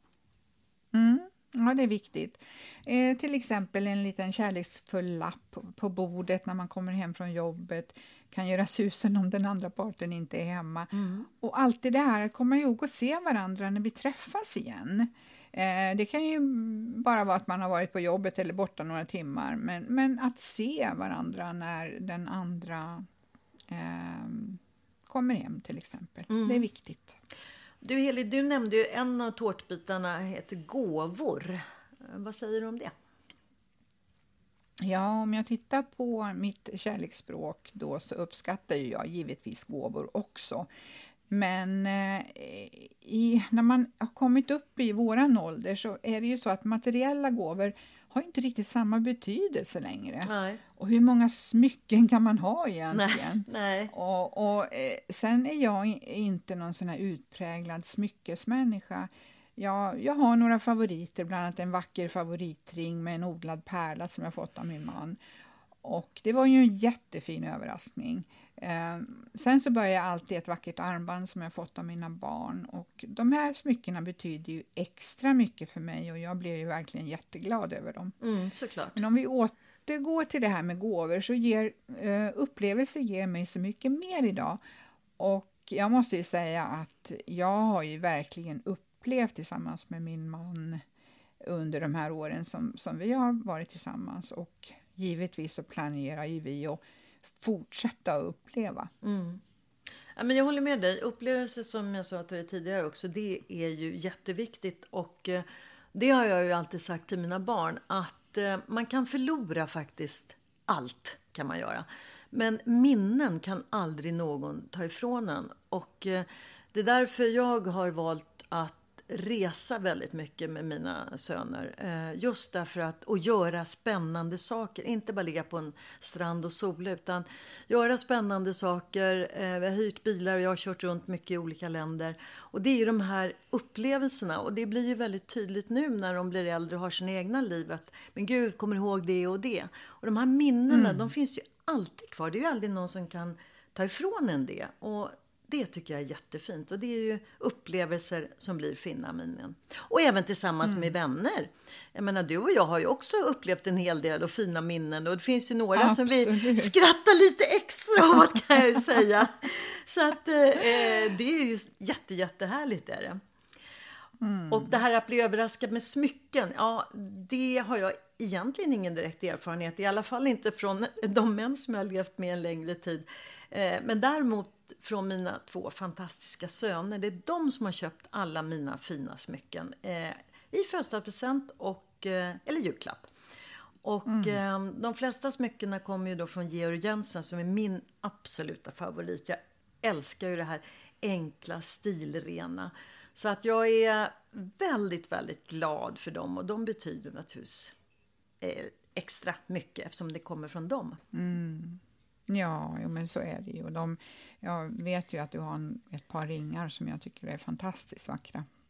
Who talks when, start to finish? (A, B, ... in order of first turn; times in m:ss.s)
0:00.9-0:23.0 A
0:10.9-0:11.3 B
0:23.7-0:27.2 A
0:26.3-0:26.7 B
0:27.8-0:32.9 B
0:34.8-0:40.7 A
0:41.3-1:05.2 A
0:50.2-0:50.6 B
0:52.9-0:53.9 B
1:05.8-1:18.2 A
1:18.2-1:19.0 B
1:19.0-1:24.6 A
1:25.2-1:30.8 A
1:31.4-1:38.9 A
1:39.0-1:39.4 B
1:40.2-2:43.2 B
2:20.7-2:21.1 A
2:30.6-2:30.9 A
2:35.7-2:36.7 A
2:44.2-2:44.8 A
2:44.5-3:03.1 B
3:03.8-3:17.7 B
3:04.1-3:04.4 A
3:18.4-3:21.0 B
3:21.1-3:28.4 A